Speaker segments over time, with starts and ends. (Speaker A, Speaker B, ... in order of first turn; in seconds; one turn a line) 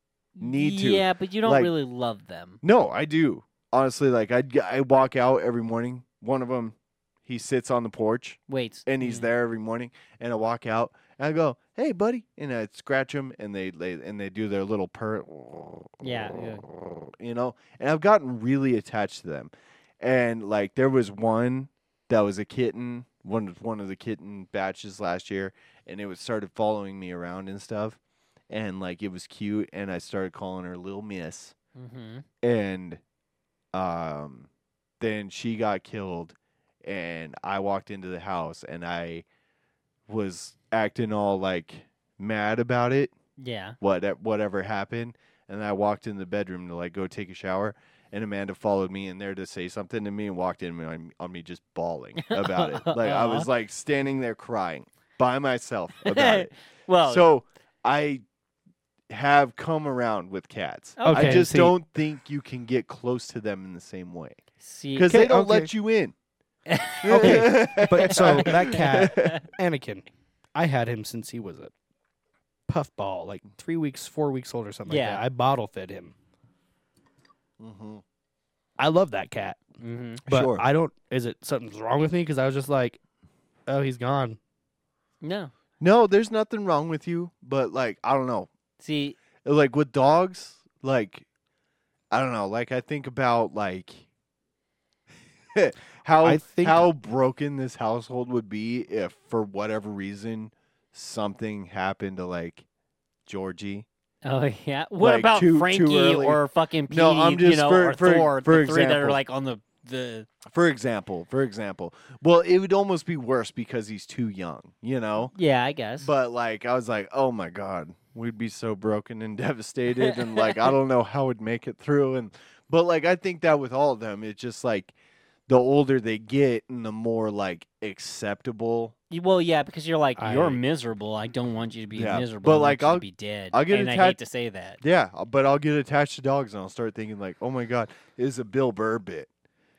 Speaker A: 0.4-2.6
Speaker B: 0.4-1.7
Speaker B: 2.6-28.0
Speaker A: 8.5-9.3
Speaker A: 16.0-16.6
Speaker B: 28.5-31.6
Speaker A: 31.8-32.2
Speaker B: 32.4-33.0
Speaker B: 33.7-34.5
Speaker B: 35.0-39.2
Speaker B: 40.1-43.1
Speaker A: 43.4-43.8
Speaker B: 43.8-56.5
Speaker A: 52.2-53.5
Speaker A: 56.0-57.3
Speaker B: 57.0-58.2
Speaker B: 59.1-64.4
Speaker A: 61.0-61.5
Speaker C: 61.0-61.7
Speaker A: 64.6-65.1
Speaker B: 64.9-66.1
Speaker C: 65.1-65.7
Speaker A: 66.7-69.4
Speaker B: 67.0-69.4
Speaker C: 67.1-71.7
Speaker C: 72.7-76.1
Speaker A: 74.9-75.2
Speaker B: 77.6-78.0
Speaker C: 78.8-79.6
Speaker A: 79.8-80.2
Speaker B: 80.2-80.6
Speaker C: 80.3-83.0
Speaker C: 83.7-84.4
Speaker A: 85.2-85.5
Speaker B: 85.8-88.5
Speaker A: 88.8-89.2
Speaker B: 89.4-91.3
Speaker B: 92.1-94.1
Speaker B: 95.5-102.6
Speaker C: 96.2-96.9
Speaker B: 103.2-103.8
Speaker A: 104.2-110.3
Speaker B: 105.0-109.2
Speaker B: 110.5-115.3
Speaker A: 115.3-116.1
Speaker B: 116.0-124.9
Speaker A: 120.0-120.6
Speaker B: 125.5-128.9
Speaker A: 129.1-134.8
Speaker C: 130.2-130.6
Speaker B: 131.9-134.2
Speaker B: 134.8-139.3